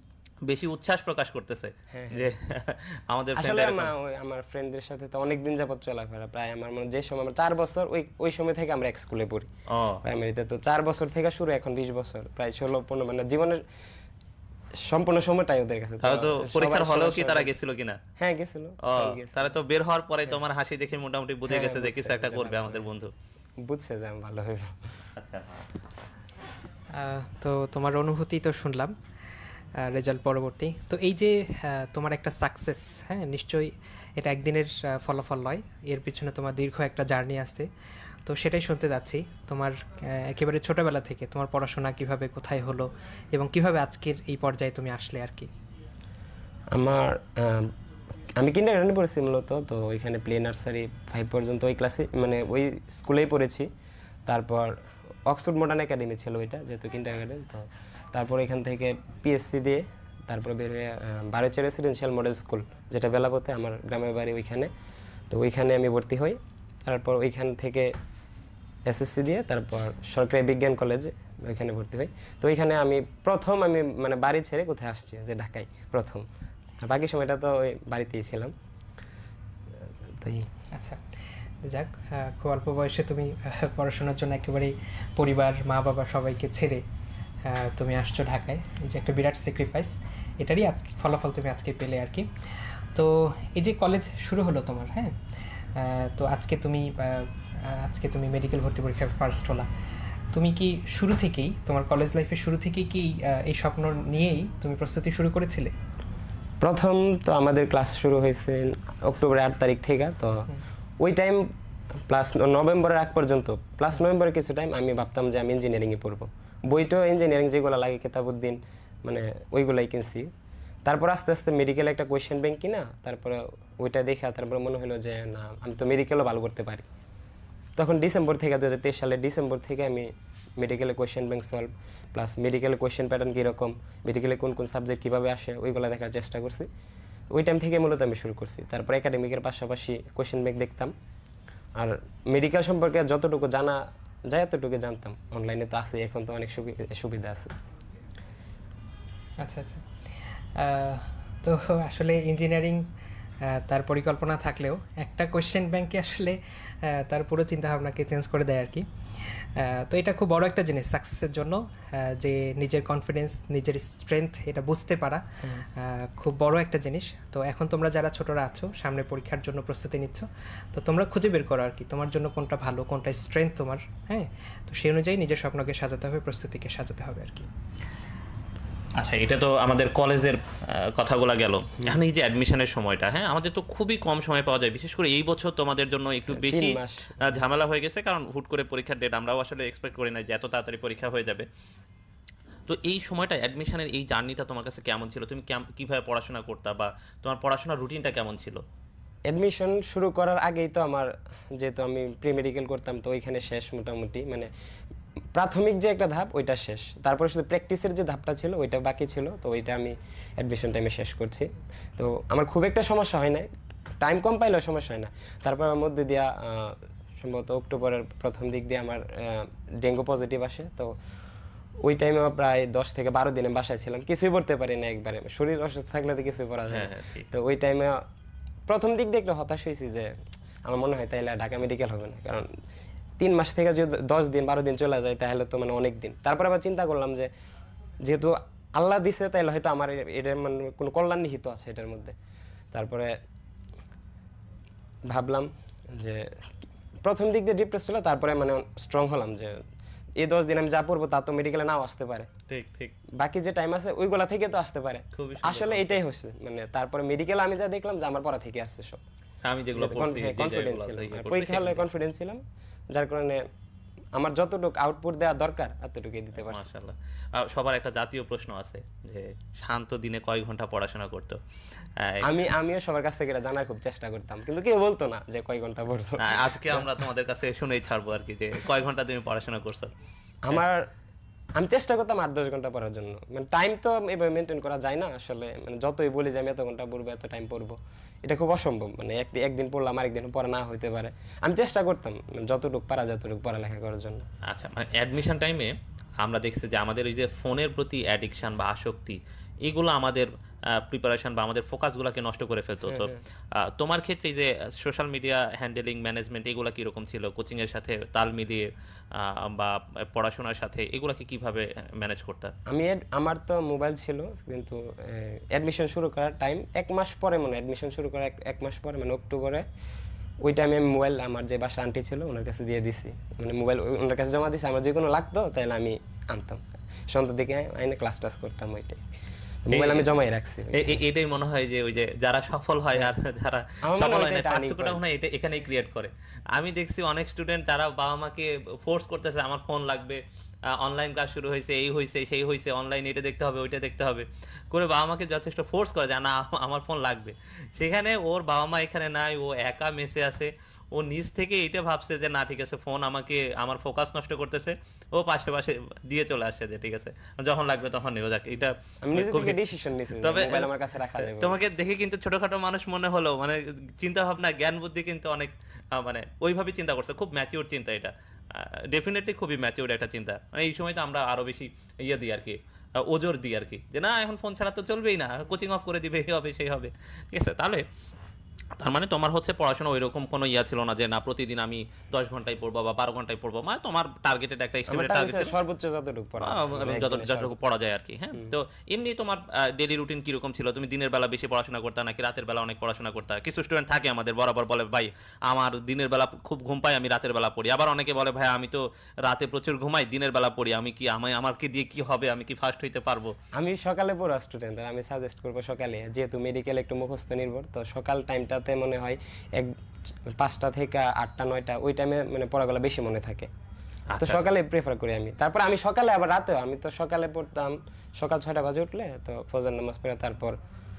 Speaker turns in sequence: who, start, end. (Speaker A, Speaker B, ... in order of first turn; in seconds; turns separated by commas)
Speaker A: 0.5-3.9, Speaker B: 1.9-2.3, Speaker B: 3.3-9.5, Speaker A: 9.7-10.0, Speaker B: 10.0-13.6, Speaker B: 14.8-17.5, Speaker A: 16.0-18.0, Speaker B: 18.2-19.6, Speaker A: 18.8-23.1, Speaker B: 21.4-22.9, Speaker B: 23.6-24.9, Speaker A: 25.2-25.7, Speaker C: 26.9-28.9, Speaker C: 29.8-37.7, Speaker C: 38.2-45.5, Speaker B: 46.7-47.7, Speaker B: 48.4-53.7, Speaker B: 54.2-64.7, Speaker B: 65.3-67.9, Speaker B: 68.8-76.3, Speaker B: 76.8-78.5, Speaker B: 80.2-80.5, Speaker C: 80.7-81.0, Speaker C: 81.6-86.8, Speaker C: 87.4-92.3, Speaker C: 92.9-95.1, Speaker C: 95.7-99.7, Speaker C: 100.3-105.7, Speaker B: 106.6-110.5, Speaker B: 111.0-120.3, Speaker B: 120.8-126.9, Speaker B: 127.8-136.7, Speaker B: 137.3-140.9, Speaker B: 141.7-147.6, Speaker C: 149.4-149.8, Speaker C: 150.6-152.8, Speaker C: 153.4-158.8, Speaker C: 159.4-177.5, Speaker A: 179.0-191.5, Speaker B: 186.3-187.4, Speaker A: 192.7-198.6, Speaker B: 199.3-204.5, Speaker B: 205.3-213.5, Speaker B: 214.0-220.9, Speaker B: 221.8-228.0, Speaker A: 226.7-227.3, Speaker B: 228.7-232.6, Speaker B: 233.2-237.3, Speaker B: 238.0-242.2, Speaker B: 242.7-243.2, Speaker B: 245.1-246.5, Speaker B: 247.0-249.6, Speaker B: 250.2-252.3, Speaker A: 252.5-252.9, Speaker B: 253.1-259.0, Speaker A: 255.2-256.0, Speaker A: 259.4-261.8, Speaker B: 259.7-263.4, Speaker B: 264.1-266.6, Speaker A: 266.4-271.4, Speaker A: 272.0-272.4, Speaker B: 272.2-276.9, Speaker A: 276.2-279.9, Speaker B: 280.4-280.9, Speaker B: 281.6-294.3, Speaker A: 294.4-312.5, Speaker B: 302.9-303.2, Speaker B: 312.7-319.6, Speaker B: 320.4-329.1, Speaker B: 329.6-331.0, Speaker A: 329.7-330.1, Speaker A: 330.7-359.6, Speaker B: 333.8-335.0, Speaker B: 359.0-361.6, Speaker A: 360.2-360.7, Speaker A: 361.3-377.8, Speaker A: 378.8-385.6, Speaker B: 384.9-387.6, Speaker A: 386.4-403.3, Speaker B: 403.5-413.5, Speaker A: 414.1-414.4, Speaker B: 414.2-420.6